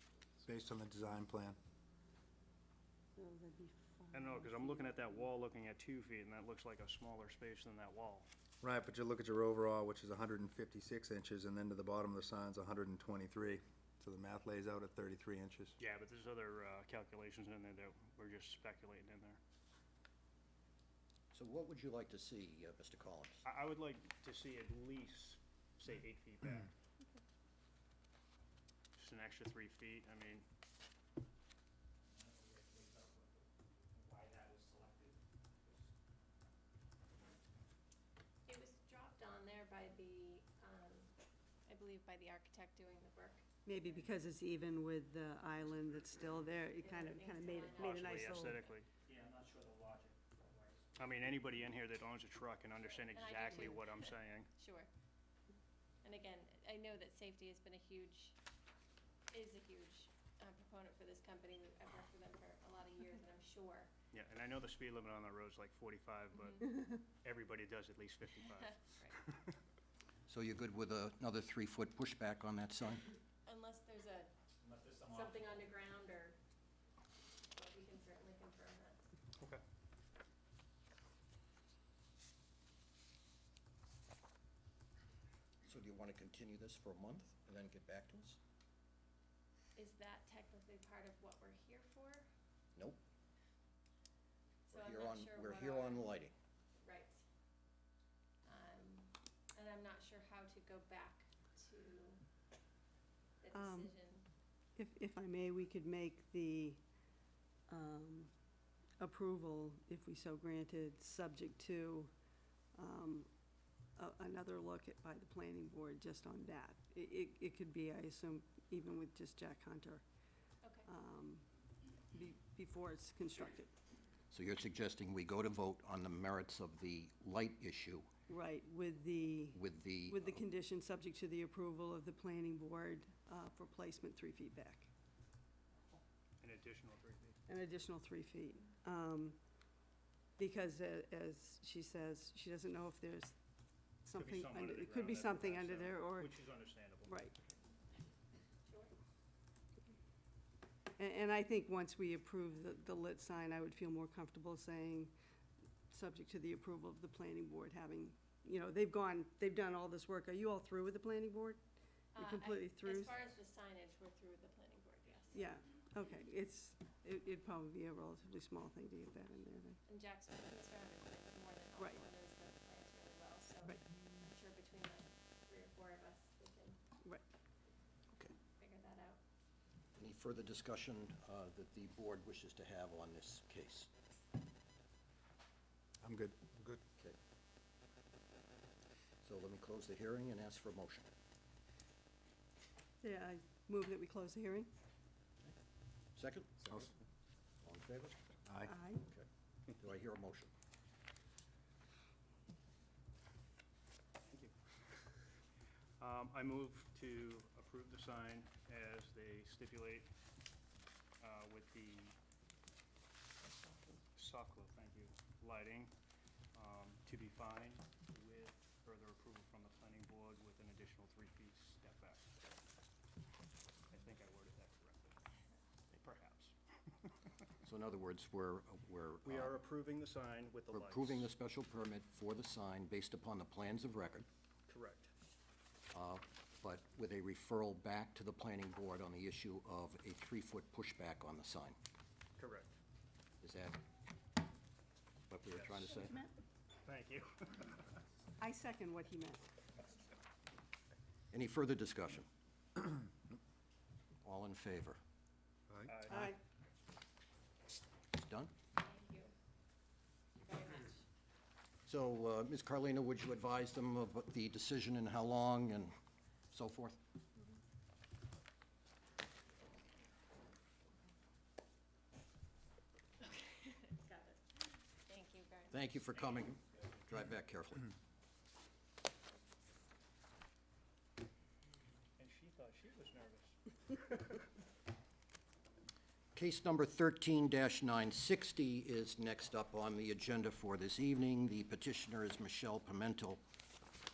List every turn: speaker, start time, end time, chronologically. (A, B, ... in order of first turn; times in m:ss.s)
0:00.4-0:01.6 A
0:03.2-0:05.3 B
0:04.1-0:08.3 C
0:08.6-0:15.8 A
0:15.8-0:19.4 C
0:21.3-0:23.4 D
0:23.4-0:26.7 C
0:29.0-0:30.4 C
0:32.2-0:33.2 E
0:34.0-0:35.1 E
0:38.4-0:41.1 F
0:41.7-0:44.0 F
0:43.6-0:48.6 B
0:46.8-0:48.3 F
0:47.8-0:48.9 C
0:50.4-0:50.8 E
0:51.0-0:54.5 C
0:52.8-0:54.9 F
0:56.0-0:58.3 F
0:59.3-1:03.9 F
1:04.1-1:08.8 C
1:06.4-1:06.6 F
1:08.8-1:09.2 F
1:10.3-1:13.0 D
1:13.4-1:14.3 F
1:14.9-1:15.5 E
1:15.0-1:16.4 F
1:17.5-1:19.0 F
1:25.6-1:28.4 D
1:29.8-1:32.3 F
1:34.7-1:36.1 F
1:34.7-1:36.3 D
1:36.8-1:37.2 F
1:38.4-1:42.2 F
1:43.4-1:44.2 F
1:43.5-1:43.9 B
1:44.8-1:46.8 B
1:47.7-1:48.3 B
1:49.0-1:52.1 B
1:52.8-1:53.3 B
1:54.0-2:00.0 B
2:00.6-2:00.9 F
2:00.9-2:01.4 B
2:02.1-2:03.7 B
2:04.3-2:08.1 D
2:08.3-2:14.9 B
2:09.5-2:10.4 D
2:16.4-2:17.4 C
2:17.5-2:19.4 B
2:20.4-2:23.3 B
2:24.0-2:26.4 B
2:24.1-2:27.2 C
2:27.1-2:27.4 B
2:28.7-2:28.9 F
2:31.0-2:35.1 B
2:35.9-2:41.6 B
2:42.1-2:45.5 F
2:42.2-2:43.2 B
2:45.3-2:49.8 B
2:49.8-2:56.8 F
2:51.8-2:52.0 B
2:58.6-2:59.2 F
3:00.0-3:03.9 D
3:06.0-3:06.8 A
3:09.2-3:11.1 D
3:13.0-3:14.7 B
3:16.2-3:16.8 D
3:16.6-3:16.9 A
3:17.6-3:18.2 D
3:18.5-3:18.7 A
3:18.7-3:19.0 B
3:19.0-3:20.5 D
3:24.2-3:24.5 C
3:26.0-3:30.1 C
3:31.2-3:32.2 C
3:34.2-3:35.9 C
3:36.5-3:42.3 C
3:43.9-3:45.2 C
3:45.9-3:46.5 C
3:47.6-3:49.6 D
3:49.2-3:51.3 C
3:50.7-3:54.3 D
3:54.7-3:55.1 C
3:55.9-4:01.8 D
4:02.4-4:02.8 C
4:03.4-4:03.8 D
4:05.3-4:06.2 D
4:05.9-4:06.3 B
4:06.8-4:08.0 C
4:08.4-4:09.5 B
4:11.3-4:12.3 D
4:14.2-4:15.0 D
4:15.7-4:16.0 A
4:15.9-4:16.3 C
4:16.1-4:16.4 B
4:18.1-4:18.5 D
4:18.7-4:19.3 F
4:20.4-4:21.0 F
4:21.9-4:25.9 D
4:26.5-4:27.0 D
4:33.2-4:35.8 F
4:35.7-4:37.9 D
4:42.2-4:44.4 C
4:46.3-4:53.4 D